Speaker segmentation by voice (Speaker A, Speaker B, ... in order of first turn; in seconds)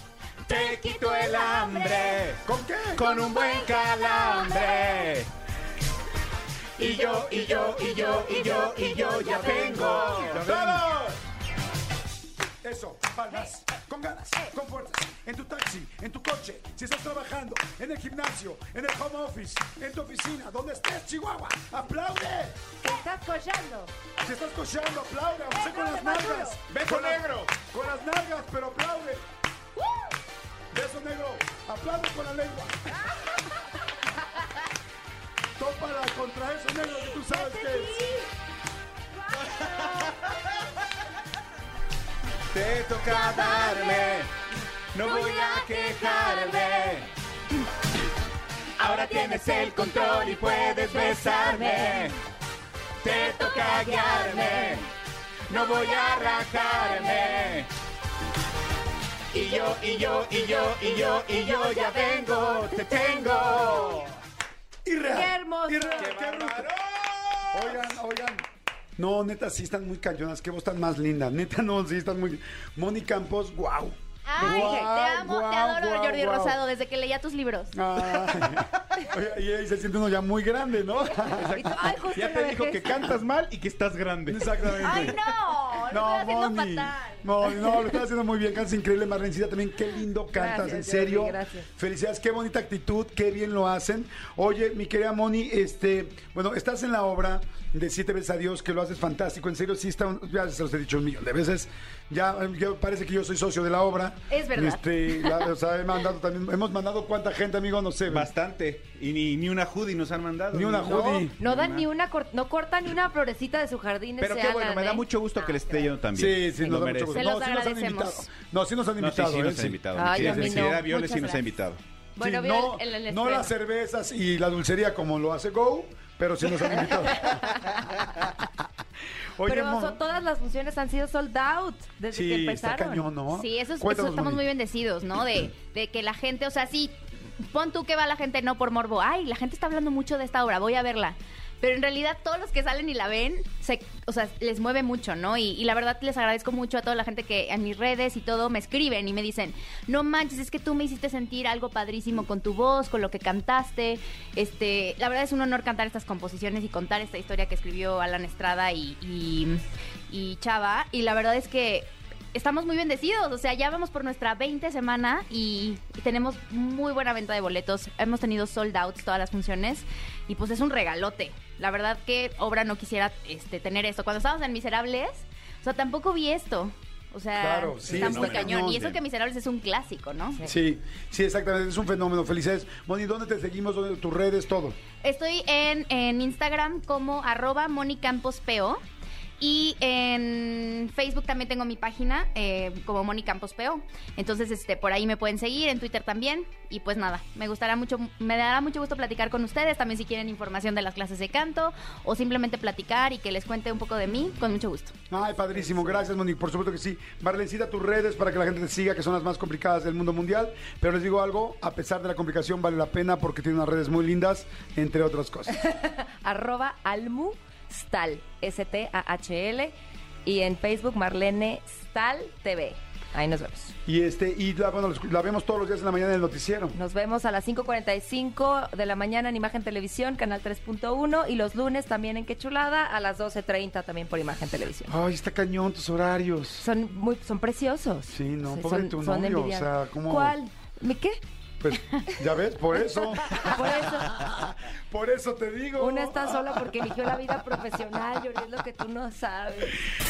Speaker A: 0.5-2.4, 2.9-5.3, 6.8-11.1, 26.7-27.5, 39.4-40.4, 42.5-44.3, 44.9-47.1, 48.8-52.2, 53.0-54.9, 55.5-57.7, 59.3-64.1, 66.0-67.9, 81.3-85.2, 108.0-111.9, 114.2-117.2, 119.0-121.8, 177.8-179.0
Speaker B: 0.5-2.2, 3.0-5.1, 6.8-10.3, 43.1-44.3, 45.1-46.8, 49.1-50.6, 53.1-54.9, 55.5-57.5, 59.4-64.0, 74.2-77.8, 84.8-87.9, 104.3-105.5, 117.1-118.2, 133.3-180.4, 185.0-188.8, 189.4-204.9
Speaker C: 2.4-3.0, 9.5-11.2, 12.6-22.6, 24.2-29.2, 30.7-33.1, 35.6-38.1, 64.8-66.7, 67.5-68.4, 69.0-76.6, 77.7-81.7, 84.3-85.2, 85.8-108.3, 110.5-111.4, 116.1-120.8, 122.2-127.6, 129.4-130.0, 132.1-134.4, 177.3-178.9, 180.4-184.8, 205.1-215.6, 223.8-226.8, 234.9-236.7, 238.1-240.3, 241.6-246.7
Speaker D: 22.8-23.9, 25.5-26.6, 37.3-38.1, 39.2-40.1, 50.9-52.1, 65.1-66.1, 74.4-74.9, 81.2-83.1, 90.3-91.7, 110.8-115.9, 119.9-121.4, 122.2-123.5, 129.4-133.0, 205.6-206.0, 215.5-219.7, 220.2-223.7, 226.7-234.9, 236.6-241.2, 242.8-244.2, 245.8-249.8